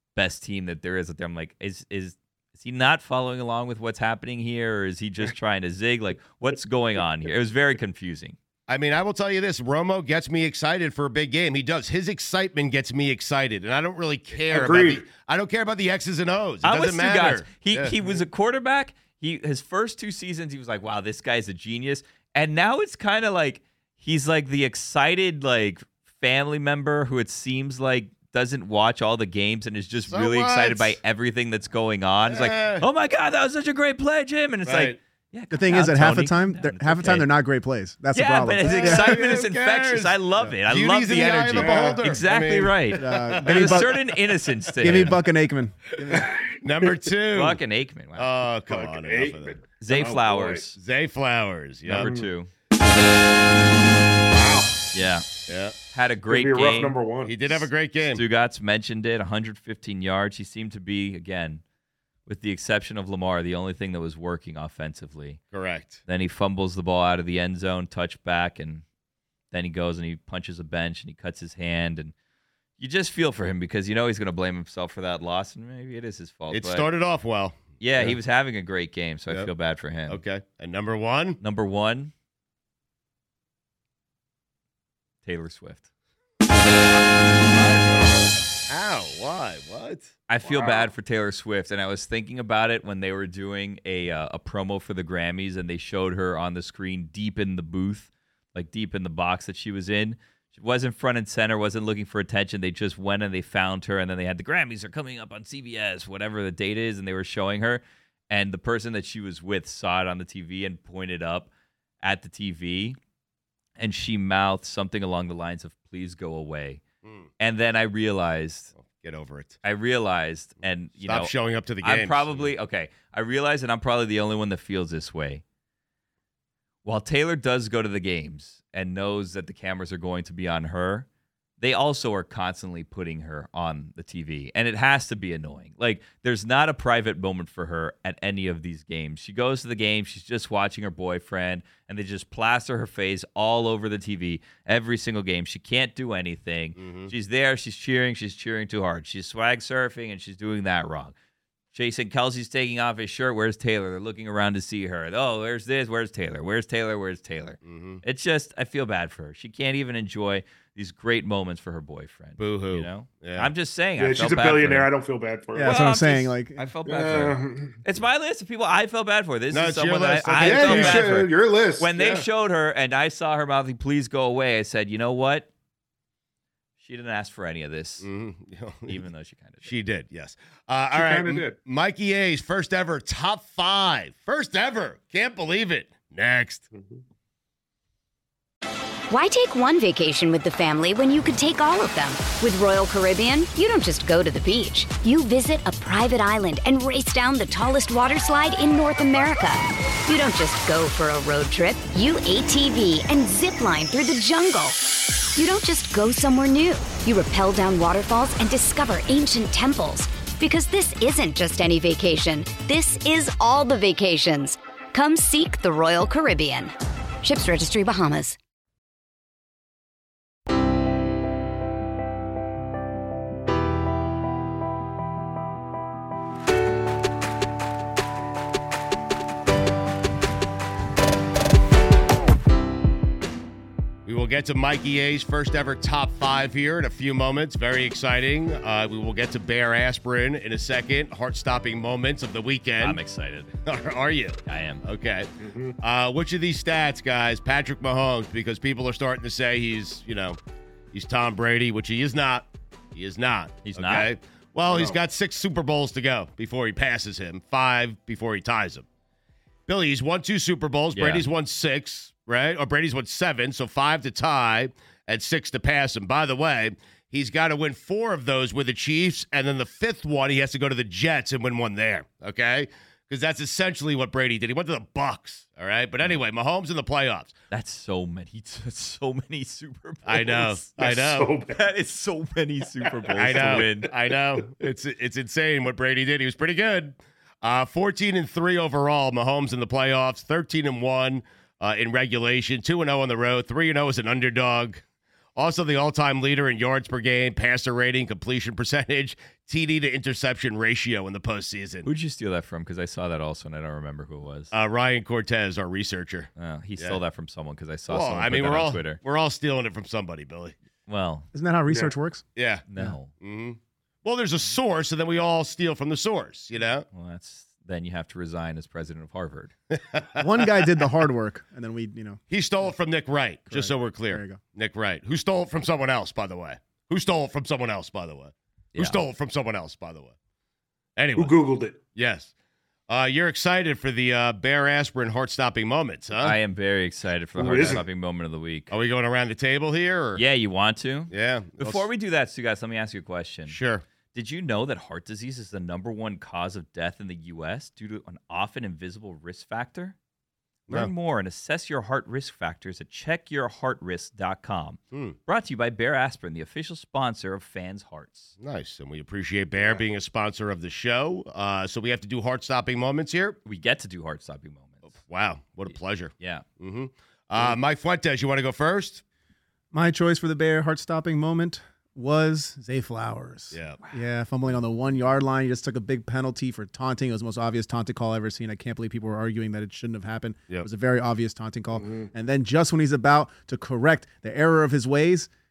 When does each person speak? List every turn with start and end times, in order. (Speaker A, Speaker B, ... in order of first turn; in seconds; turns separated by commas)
Speaker A: 0.1-8.3, Speaker B: 8.7-18.2, Speaker C: 14.4-15.0, Speaker A: 16.6-37.3, Speaker B: 30.1-31.0, Speaker B: 32.3-32.9, Speaker B: 34.6-35.0, Speaker D: 35.5-39.2, Speaker A: 38.1-45.2, Speaker B: 38.6-44.0, Speaker C: 41.5-42.0, Speaker D: 42.9-43.9, Speaker D: 44.8-46.3, Speaker C: 46.1-46.9, Speaker B: 46.6-47.6, Speaker A: 47.3-48.3, Speaker B: 48.1-49.6, Speaker C: 48.7-50.6, Speaker A: 49.8-50.8, Speaker B: 50.7-52.1, Speaker A: 51.9-52.5, Speaker C: 51.9-52.3, Speaker C: 54.3-54.8, Speaker A: 54.9-55.3, Speaker B: 55.5-55.7, Speaker A: 55.9-61.6, Speaker C: 56.3-57.4, Speaker B: 57.2-58.2, Speaker A: 62.3-65.4, Speaker B: 65.5-66.0, Speaker A: 66.1-68.8, Speaker A: 69.5-72.1, Speaker A: 72.8-76.9, Speaker B: 76.5-78.2, Speaker A: 77.8-80.2, Speaker B: 80.1-81.4, Speaker A: 81.4-82.1, Speaker A: 85.2-85.8, Speaker B: 87.5-90.7, Speaker A: 90.3-111.5, Speaker A: 112.0-113.0, Speaker A: 113.8-116.8, Speaker B: 117.0-117.3, Speaker A: 117.4-118.7, Speaker B: 118.8-119.6, Speaker A: 119.6-125.4, Speaker B: 121.0-122.5, Speaker A: 126.8-131.1, Speaker A: 131.6-151.1, Speaker B: 146.8-147.1, Speaker A: 151.7-164.9, Speaker B: 157.6-158.0, Speaker B: 162.4-163.5, Speaker C: 164.0-165.8, Speaker D: 165.5-166.7, Speaker A: 165.6-175.5, Speaker C: 166.8-167.8, Speaker B: 169.5-171.3, Speaker C: 170.4-172.2, Speaker A: 176.8-178.1, Speaker B: 178.0-179.0, Speaker A: 178.9-179.7, Speaker B: 179.6-186.6, Speaker C: 180.9-181.6, Speaker C: 186.7-187.0, Speaker E: 189.1-218.4, Speaker B: 234.1-243.0, Speaker A: 242.8-243.5, Speaker B: 243.6-245.3, Speaker A: 244.4-244.8, Speaker C: 245.4-245.8, Speaker B: 245.8-250.4, Speaker B: 250.9-258.9, Speaker A: 253.6-254.1, Speaker C: 254.7-255.0, Speaker B: 259.7-277.3, Speaker A: 260.9-261.2, Speaker A: 277.5-280.7, Speaker B: 280.1-281.3, Speaker C: 280.8-281.6, Speaker A: 281.5-283.9, Speaker C: 282.8-283.7, Speaker B: 283.1-294.8, Speaker B: 295.4-301.9, Speaker A: 301.8-304.5, Speaker B: 304.5-307.0, Speaker A: 306.4-309.0, Speaker B: 307.9-310.6, Speaker A: 310.9-311.3, Speaker D: 311.3-312.2, Speaker C: 311.7-311.9, Speaker B: 312.3-312.6, Speaker A: 312.7-313.1, Speaker B: 313.2-316.9, Speaker A: 316.9-319.5, Speaker B: 319.7-320.2, Speaker D: 320.2-322.2, Speaker B: 322.3-330.1, Speaker D: 323.5-324.4, Speaker A: 328.7-329.0, Speaker B: 331.0-331.4, Speaker C: 331.2-331.8, Speaker B: 331.9-332.3, Speaker B: 332.9-336.4, Speaker A: 336.2-338.7, Speaker C: 337.4-337.8, Speaker B: 337.4-337.8, Speaker B: 338.7-340.2, Speaker A: 340.1-343.6, Speaker B: 341.1-341.8, Speaker B: 343.5-343.8, Speaker A: 344.1-349.9, Speaker A: 350.7-358.3, Speaker B: 354.9-355.2, Speaker B: 358.4-363.4, Speaker C: 359.6-359.8, Speaker A: 363.4-364.9, Speaker B: 364.9-369.0, Speaker A: 365.7-366.4, Speaker D: 369.7-385.3, Speaker B: 373.5-373.8, Speaker C: 381.8-382.1